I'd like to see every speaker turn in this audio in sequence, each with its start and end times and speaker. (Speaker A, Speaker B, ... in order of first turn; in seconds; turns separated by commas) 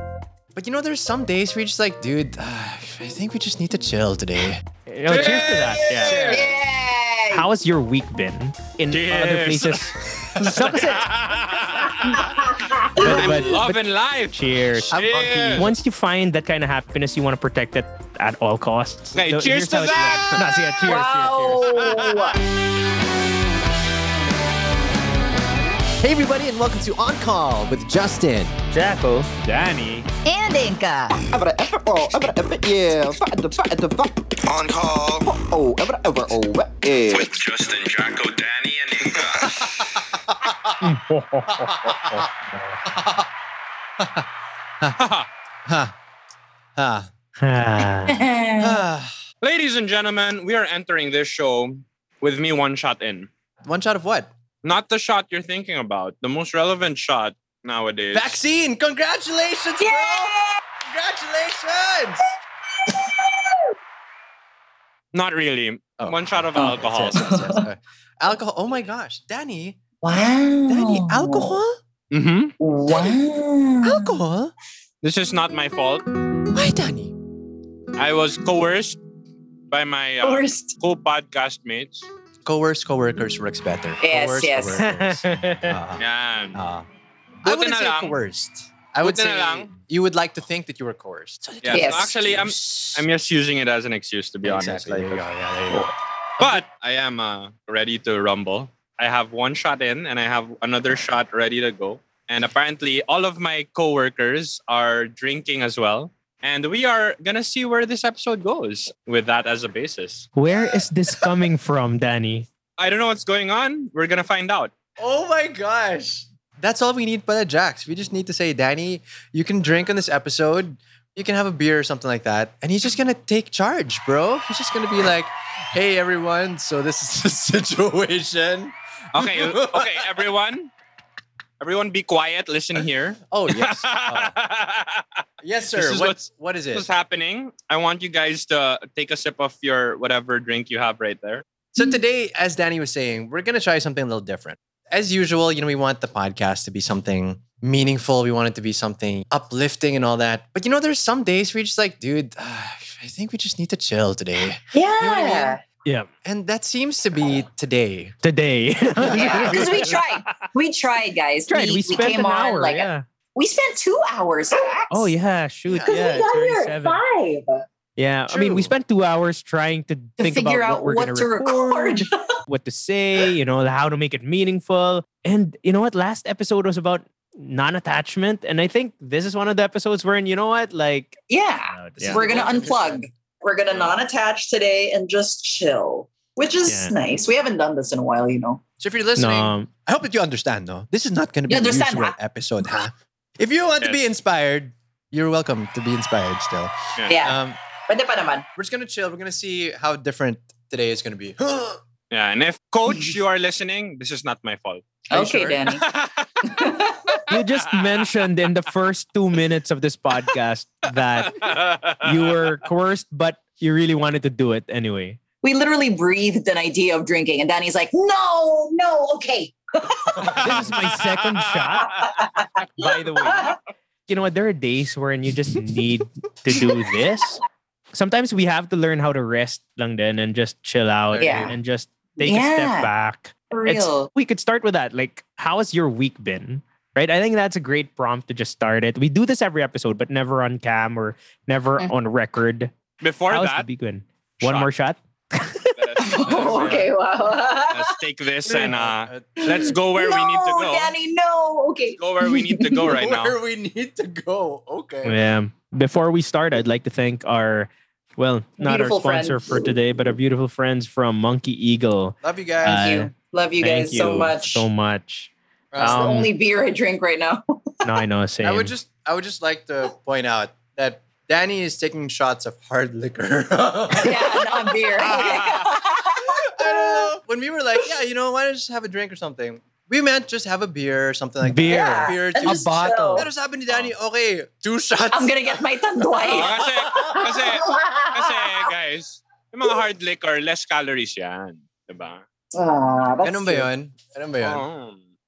Speaker A: 0.5-6.5, Speaker B: 4.9-6.4, Speaker C: 5.1-6.3, Speaker D: 6.3-7.5, Speaker B: 7.3-11.1, Speaker C: 8.9-14.3, Speaker D: 12.0-13.2, Speaker B: 13.0-15.0, Speaker A: 14.9-15.8, Speaker C: 14.9-15.7, Speaker B: 15.5-21.8, Speaker C: 19.1-22.3, Speaker D: 20.8-22.4, Speaker A: 26.0-28.5, Speaker B: 28.7-29.3, Speaker C: 29.4-30.1, Speaker D: 30.2-31.2, Speaker E: 31.3-34.3, Speaker F: 34.5-35.2, Speaker E: 35.2-37.3, Speaker F: 37.1-39.5, Speaker A: 40.3-40.5, Speaker B: 40.8-42.8, Speaker A: 41.6-42.2, Speaker A: 42.9-43.3, Speaker A: 44.0-44.2, Speaker C: 45.0-45.3, Speaker A: 45.6-45.9, Speaker A: 46.8-47.1, Speaker B: 47.4-48.2, Speaker D: 48.1-48.8, Speaker A: 48.6-49.1, Speaker C: 49.4-53.3, Speaker A: 53.6-54.3, Speaker C: 54.6-58.4, Speaker A: 58.1-60.3, Speaker D: 59.8-60.6, Speaker A: 60.9-62.2, Speaker D: 62.9-63.7, Speaker C: 65.1-67.3, Speaker A: 66.0-69.8, Speaker D: 66.6-67.6, Speaker D: 70.0-71.6, Speaker A: 70.7-71.8, Speaker C: 72.1-72.5, Speaker D: 72.6-74.1, Speaker A: 73.8-74.5, Speaker C: 75.0-76.0, Speaker A: 76.5-77.1, Speaker C: 78.0-79.0, Speaker C: 79.7-82.1, Speaker D: 80.2-80.7, Speaker A: 82.4-86.9, Speaker D: 84.0-84.8, Speaker B: 84.8-85.7, Speaker C: 86.0-86.6, Speaker A: 87.4-93.0, Speaker C: 87.5-88.2, Speaker C: 89.0-89.7, Speaker C: 91.6-95.3, Speaker D: 91.7-92.1, Speaker A: 94.4-95.9, Speaker C: 96.4-110.3, Speaker B: 110.3-112.5, Speaker C: 112.8-114.7, Speaker A: 115.0-130.1, Speaker C: 129.1-130.7, Speaker C: 131.6-135.2, Speaker A: 133.3-134.4, Speaker A: 135.4-136.9, Speaker C: 135.7-141.4, Speaker A: 141.7-155.6, Speaker D: 154.7-155.6, Speaker A: 156.2-158.1, Speaker B: 158.2-160.3, Speaker A: 159.1-159.9, Speaker D: 159.1-165.1, Speaker B: 161.5-163.1, Speaker B: 164.9-167.0, Speaker A: 165.7-166.2, Speaker D: 165.9-167.7, Speaker B: 167.9-182.2, Speaker A: 168.3-168.7, Speaker D: 170.2-172.1, Speaker D: 181.3-188.6, Speaker A: 182.0-183.0, Speaker B: 186.7-186.9, Speaker A: 188.8-197.6, Speaker B: 189.2-189.7, Speaker D: 191.5-192.2, Speaker C: 193.8-194.0, Speaker D: 197.1-198.4, Speaker A: 198.6-201.8, Speaker C: 202.1-205.0, Speaker A: 205.1-205.6, Speaker D: 205.1-205.8, Speaker C: 205.7-206.6, Speaker D: 206.4-207.2, Speaker B: 207.3-211.4, Speaker C: 207.3-208.0, Speaker C: 211.2-212.4, Speaker B: 212.0-215.2, Speaker D: 215.4-220.6, Speaker B: 220.4-221.9, Speaker C: 220.4-221.4, Speaker D: 221.8-223.6, Speaker B: 222.8-223.5, Speaker B: 224.1-227.4, Speaker B: 227.9-242.7, Speaker A: 231.1-231.6, Speaker D: 231.2-231.5, Speaker D: 232.2-232.9, Speaker D: 233.5-234.1, Speaker C: 243.0-243.7, Speaker B: 243.3-245.7, Speaker C: 244.4-244.7, Speaker C: 245.7-246.9, Speaker D: 246.0-247.9, Speaker C: 247.7-250.9, Speaker A: 248.4-249.7, Speaker D: 249.4-252.8, Speaker C: 251.9-253.4, Speaker A: 252.8-255.2, Speaker B: 255.0-266.3, Speaker D: 258.6-259.8, Speaker A: 262.2-262.8, Speaker D: 262.6-264.6, Speaker A: 265.7-266.1, Speaker D: 265.8-267.9, Speaker B: 267.8-268.7, Speaker A: 268.4-275.6, Speaker D: 274.0-277.1, Speaker A: 276.5-285.6, Speaker B: 281.4-283.3, Speaker D: 281.7-283.3, Speaker D: 285.1-288.6, Speaker A: 286.2-286.7, Speaker C: 286.2-292.2, Speaker D: 292.5-293.7, Speaker A: 293.2-294.6, Speaker C: 294.4-295.0